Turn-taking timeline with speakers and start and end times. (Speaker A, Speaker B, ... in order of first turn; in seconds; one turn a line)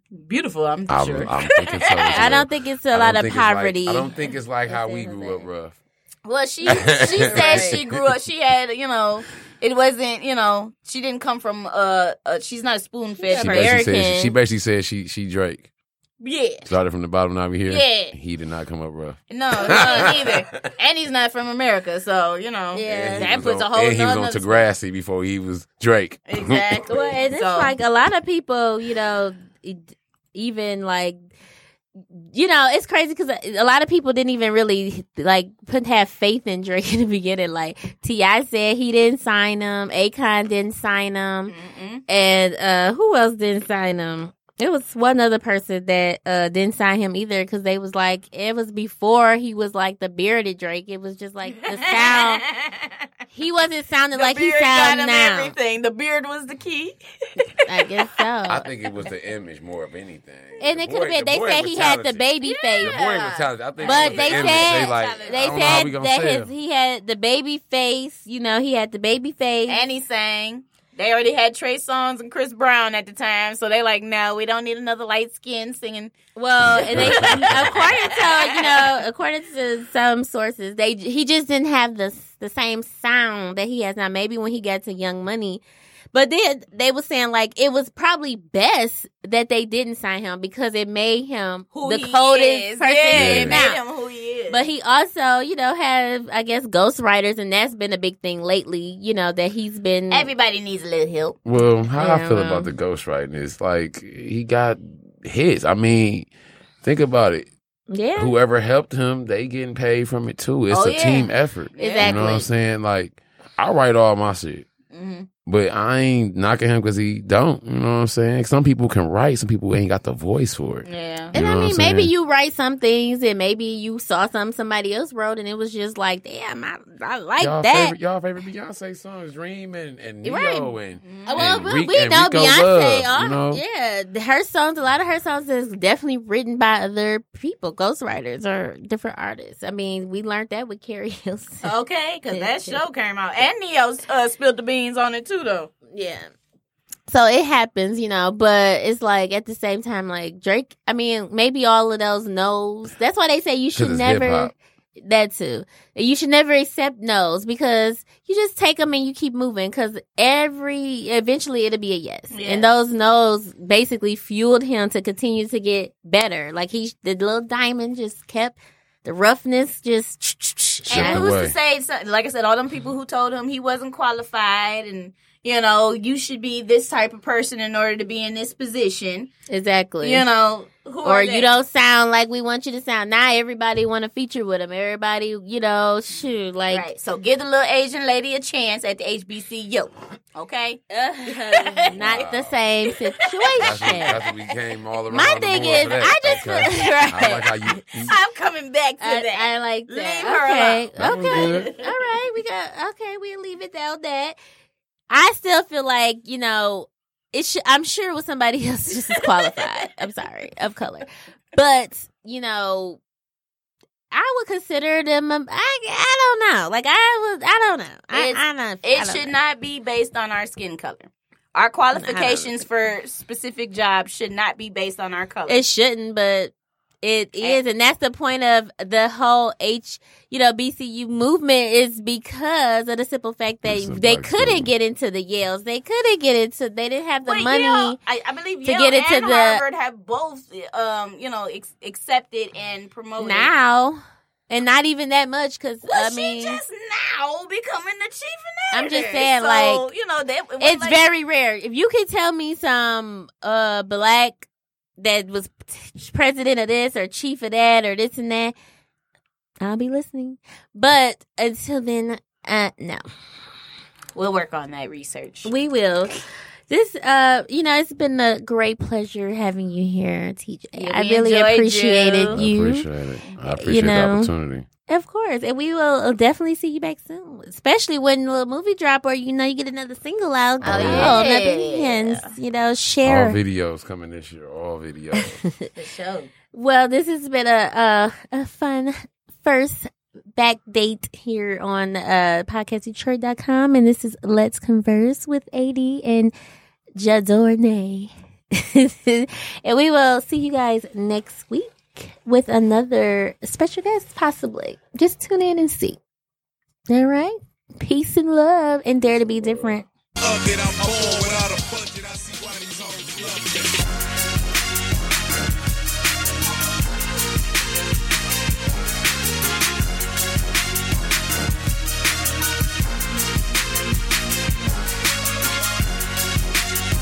Speaker A: 0.1-2.3
Speaker B: 0.9-5.8
Speaker C: 2.1-5.5
Speaker A: 6.2-13.8
Speaker B: 6.7-8.1
Speaker C: 7.2-7.8
Speaker C: 13.2-14.3
Speaker B: 13.3-15.7
Speaker A: 16.2-16.7
Speaker B: 16.6-20.6
Speaker A: 17.7-18.1
Speaker A: 19.3-24.7
Speaker C: 19.7-20.1
Speaker C: 22.7-23.4
Speaker B: 22.9-26.8
Speaker A: 26.3-27.8
Speaker C: 26.9-31.2
Speaker C: 32.2-41.5
Speaker A: 41.5-42.0
Speaker C: 42.1-52.5
Speaker A: 51.6-52.9
Speaker C: 53.3-55.5
Speaker A: 54.1-57.9
Speaker C: 57.7-58.7
Speaker B: 58.5-66.5
Speaker C: 60.6-63.0
Speaker A: 62.4-65.9
Speaker C: 63.8-69.8
Speaker A: 69.7-76.1
Speaker C: 76.3-85.6
Speaker B: 76.7-77.8
Speaker A: 76.7-78.9
Speaker C: 86.1-93.8
Speaker A: 91.7-94.7
Speaker B: 93.1-93.7
Speaker C: 94.5-100.3
Speaker A: 100.1-101.4
Speaker B: 101.5-106.3
Speaker C: 102.0-102.7
Speaker B: 106.8-107.5
Speaker C: 107.9-108.4
Speaker B: 108.2-114.7
Speaker A: 110.7-112.2
Speaker C: 111.8-112.5
Speaker A: 114.9-115.3
Speaker B: 115.5-122.1
Speaker A: 120.8-121.3
Speaker C: 121.3-128.0
Speaker B: 127.4-133.6
Speaker C: 130.2-130.7
Speaker A: 131.0-131.6
Speaker C: 131.2-141.7
Speaker A: 141.6-145.7
Speaker C: 142.3-142.8
Speaker C: 145.9-146.3
Speaker C: 147.1-171.3
Speaker B: 153.8-154.5
Speaker A: 162.3-162.7
Speaker B: 170.9-171.5
Speaker A: 170.9-179.3
Speaker C: 179.5-180.3
Speaker A: 180.0-181.5
Speaker C: 181.0-186.9
Speaker A: 186.7-192.3
Speaker C: 190.9-194.2
Speaker B: 191.9-192.6
Speaker A: 193.4-193.9
Speaker B: 193.6-198.2
Speaker C: 195.1-197.9
Speaker A: 198.1-202.1
Speaker C: 199.0-204.4
Speaker B: 201.0-201.7
Speaker C: 205.1-213.0
Speaker C: 214.1-219.3
Speaker A: 218.1-225.6
Speaker C: 221.9-222.6
Speaker C: 225.5-238.0
Speaker B: 233.7-234.7
Speaker A: 237.3-243.5
Speaker C: 238.6-239.6
Speaker C: 243.2-246.6
Speaker A: 245.9-251.1
Speaker C: 248.7-249.8
Speaker C: 250.6-254.5
Speaker C: 255.0-258.5
Speaker C: 259.6-263.0
Speaker A: 264.1-265.5
Speaker C: 265.4-272.9
Speaker A: 270.8-272.4
Speaker B: 272.3-274.7
Speaker C: 273.5-274.3
Speaker C: 274.9-283.4
Speaker B: 280.6-281.2
Speaker A: 280.6-282.3
Speaker B: 283.0-285.4
Speaker A: 285.8-286.3
Speaker C: 286.5-296.3
Speaker C: 297.0-306.0
Speaker C: 306.9-309.9
Speaker D: 310.2-313.8